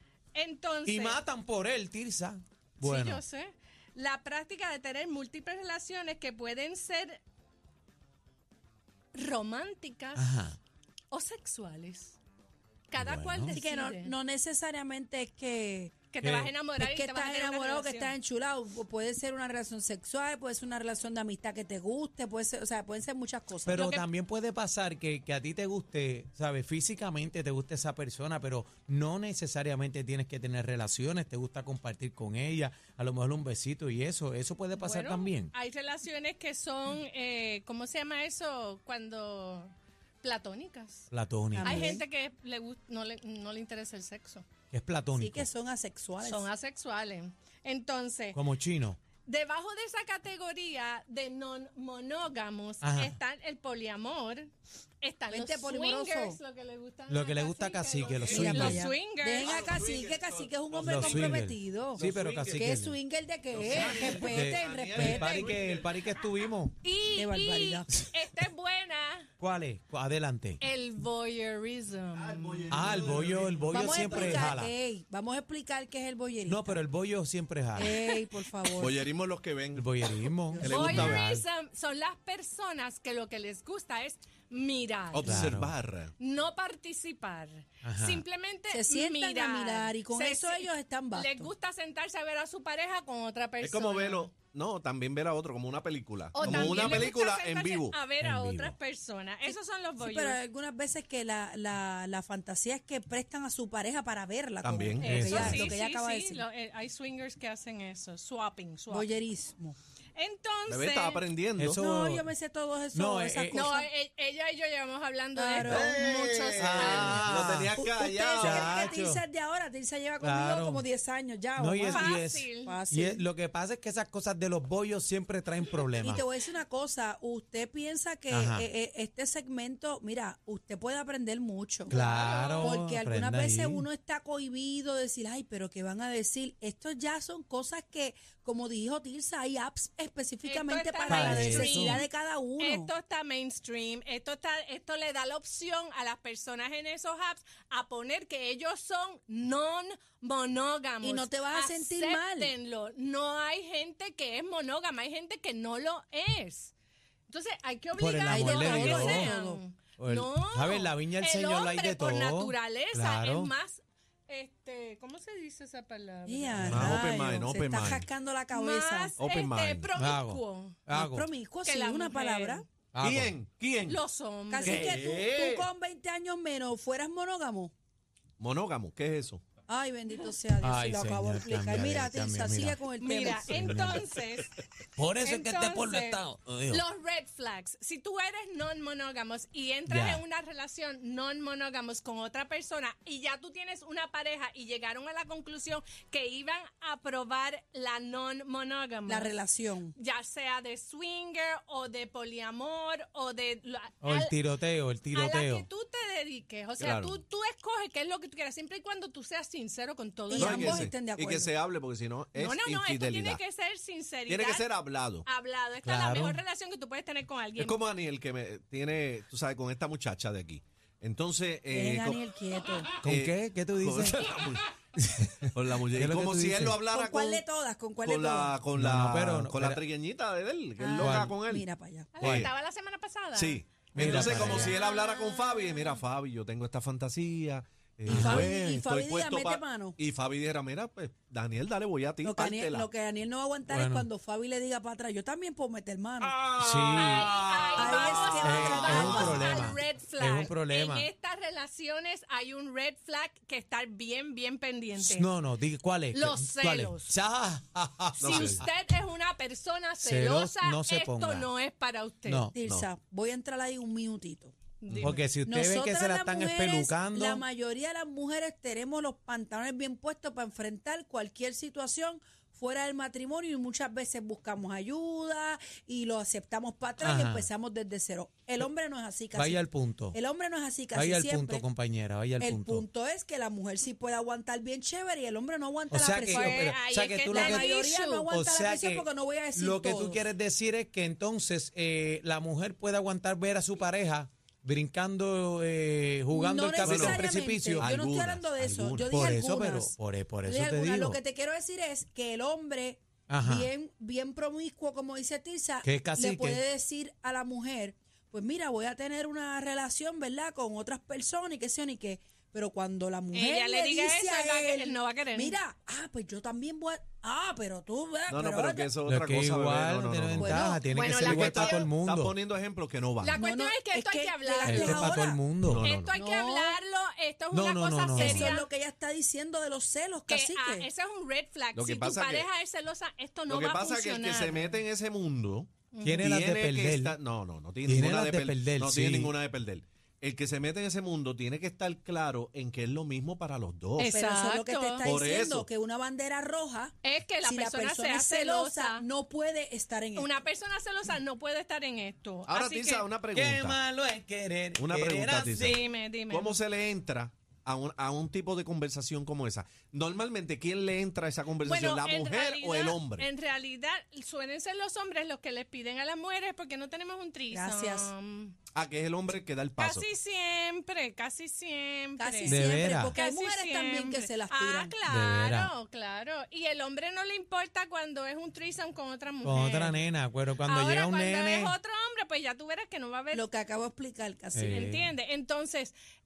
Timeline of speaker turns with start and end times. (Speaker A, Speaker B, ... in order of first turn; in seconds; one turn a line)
Speaker A: 0.3-1.2
Speaker B: 0.8-3.2
Speaker A: 2.8-7.2
Speaker A: 9.1-10.3
Speaker B: 10.1-10.6
Speaker A: 11.1-12.2
Speaker A: 12.9-14.1
Speaker B: 13.0-13.6
Speaker C: 13.5-15.9
Speaker A: 16.1-18.1
Speaker B: 16.2-16.5
Speaker C: 16.8-23.8
Speaker B: 23.6-35.5
Speaker A: 23.7-24.0
Speaker A: 34.7-41.1
Speaker B: 41.1-41.9
Speaker C: 41.5-42.0
Speaker A: 41.6-44.5
Speaker B: 44.7-45.5
Speaker C: 45.1-46.5
Speaker A: 46.2-48.4
Speaker B: 48.3-49.0
Speaker A: 49.2-59.7
Speaker B: 52.8-53.1
Speaker C: 55.3-56.4
Speaker B: 57.1-58.8
Speaker D: 58.1-58.7
Speaker C: 58.3-65.6
Speaker D: 59.4-61.4
Speaker B: 60.8-63.0
Speaker D: 61.9-62.7
Speaker D: 63.5-65.9
Speaker B: 64.1-66.8
Speaker A: 66.8-69.3
Speaker C: 67.1-67.9
Speaker B: 69.4-70.6
Speaker A: 70.6-72.5
Speaker D: 72.1-74.5
Speaker B: 72.7-74.7
Speaker C: 73.7-76.8
Speaker B: 76.5-77.9
Speaker C: 77.7-79.0
Speaker A: 77.8-78.2
Speaker D: 78.7-80.1
Speaker B: 79.7-81.5
Speaker D: 80.6-81.2
Speaker A: 80.6-85.5
Speaker D: 85.1-86.1
Speaker B: 85.2-85.7
Speaker A: 86.2-94.3
Speaker B: 87.8-88.2
Speaker C: 88.7-91.5
Speaker D: 93.6-98.0
Speaker A: 96.3-100.4
Speaker C: 96.5-97.0
Speaker B: 98.2-98.7
Speaker C: 100.0-106.4
Speaker D: 104.6-105.2
Speaker A: 105.0-109.2
Speaker B: 105.0-105.7
Speaker C: 108.9-109.8
Speaker A: 110.2-111.2
Speaker D: 110.7-111.8
Speaker B: 111.6-112.3
Speaker C: 111.7-113.9
Speaker B: 112.9-113.6
Speaker A: 113.5-117.3
Speaker C: 115.3-116.0
Speaker D: 115.6-118.9
Speaker B: 116.6-117.8
Speaker C: 117.7-123.2
Speaker B: 118.4-119.2
Speaker B: 120.2-120.8
Speaker B: 121.6-126.2
Speaker A: 121.9-122.8
Speaker C: 126.0-131.9
Speaker B: 128.3-128.7
Speaker A: 131.9-132.8
Speaker B: 131.9-133.8
Speaker C: 132.6-142.9
Speaker A: 140.4-142.1
Speaker B: 141.1-142.0
Speaker A: 142.6-156.7
Speaker C: 151.0-152.5
Speaker A: 157.3-166.8
Speaker B: 158.0-159.3
Speaker C: 158.3-159.6
Speaker B: 160.0-163.5
Speaker C: 166.3-169.2
Speaker B: 166.6-167.0
Speaker D: 166.7-168.1
Speaker A: 168.5-170.8
Speaker D: 169.2-169.9
Speaker B: 169.9-171.3
Speaker C: 170.9-172.6
Speaker A: 171.6-172.6
Speaker B: 172.9-173.3
Speaker D: 173.0-174.0
Speaker A: 173.9-174.9
Speaker C: 174.5-177.7
Speaker D: 174.6-175.7
Speaker D: 178.4-179.4
Speaker C: 179.7-183.7
Speaker B: 180.6-182.8
Speaker A: 183.0-184.6
Speaker B: 183.6-184.0
Speaker B: 185.0-186.8
Speaker A: 185.2-199.3
Speaker B: 189.9-190.2
Speaker C: 199.1-199.9
Speaker A: 199.9-204.3
Speaker B: 204.0-205.7
Speaker A: 205.1-210.8
Speaker D: 206.8-207.2
Speaker C: 210.3-211.5
Speaker D: 210.3-213.4
Speaker A: 212.3-214.7
Speaker D: 214.3-215.2
Speaker A: 215.2-217.8
Speaker B: 215.8-216.4
Speaker D: 217.6-222.2
Speaker C: 221.7-222.9
Speaker B: 223.0-224.4
Speaker D: 223.0-224.6
Speaker B: 225.0-226.8
Speaker D: 225.5-227.4
Speaker C: 226.8-228.6
Speaker D: 228.0-231.6
Speaker B: 228.7-229.8
Speaker C: 230.8-232.1
Speaker B: 231.0-231.3
Speaker A: 232.1-236.0
Speaker D: 232.2-232.5
Speaker D: 233.3-242.9
Speaker B: 233.9-234.8
Speaker C: 238.0-240.0
Speaker B: 238.1-238.5
Speaker C: 242.2-246.4
Speaker B: 243.7-244.1
Speaker D: 246.2-247.2
Speaker B: 246.5-251.1
Speaker A: 246.8-255.3
Speaker C: 247.8-249.7
Speaker B: 255.0-258.7
Speaker A: 256.1-257.1
Speaker D: 258.2-258.6
Speaker A: 258.2-262.5
Speaker B: 260.0-261.5
Speaker B: 262.2-262.6
Speaker C: 262.5-264.5
Speaker A: 264.8-265.2
Speaker D: 264.9-265.1
Speaker B: 265.0-267.4
Speaker C: 265.4-279.6
Speaker B: 277.0-277.5
Speaker B: 279.3-280.2
Speaker C: 280.1-281.6
Speaker B: 280.9-282.9
Speaker C: 282.4-286.7
Speaker B: 285.9-287.7
Speaker A: 286.2-288.3
Speaker C: 287.3-290.2
Speaker B: 288.3-297.9
Speaker C: 296.3-318.9
Speaker D: 296.8-297.3
Speaker D: 297.8-299.1
Speaker B: 299.0-301.2
Speaker B: 303.3-303.7
Speaker B: 305.8-306.6
Speaker A: 313.3-315.6
Speaker D: 318.3-323.4
Speaker B: 319.0-322.4
Speaker C: 320.4-320.8
Speaker A: 320.8-321.9
Speaker A: 323.2-325.2
Speaker C: 323.3-325.4
Speaker B: 324.6-325.9
Speaker D: 325.6-326.1
Speaker A: 325.8-328.7
Speaker C: 326.1-326.8
Speaker B: 327.5-328.6
Speaker C: 328.1-330.9
Speaker A: 330.3-334.8
Speaker D: 331.7-332.5
Speaker D: 333.5-344.1
Speaker A: 335.9-336.3
Speaker B: 336.0-337.2
Speaker B: 337.8-339.4
Speaker A: 344.0-345.1
Speaker C: 344.1-350.3
Speaker D: 345.0-345.7
Speaker A: 347.0-349.0
Speaker A: 350.1-353.1
Speaker D: 352.5-353.8
Speaker B: 353.3-355.8
Speaker D: 354.8-363.3
Speaker A: 355.6-356.6
Speaker A: 361.6-368.5
Speaker C: 367.5-368.1
Speaker D: 368.7-370.1
Speaker A: 369.8-380.0
Speaker C: 372.2-374.9
Speaker B: 372.4-373.2
Speaker B: 375.1-375.7
Speaker B: 379.4-381.7
Speaker A: 380.6-383.4
Speaker C: 383.3-384.9
Speaker B: 384.5-385.1
Speaker A: 384.6-385.9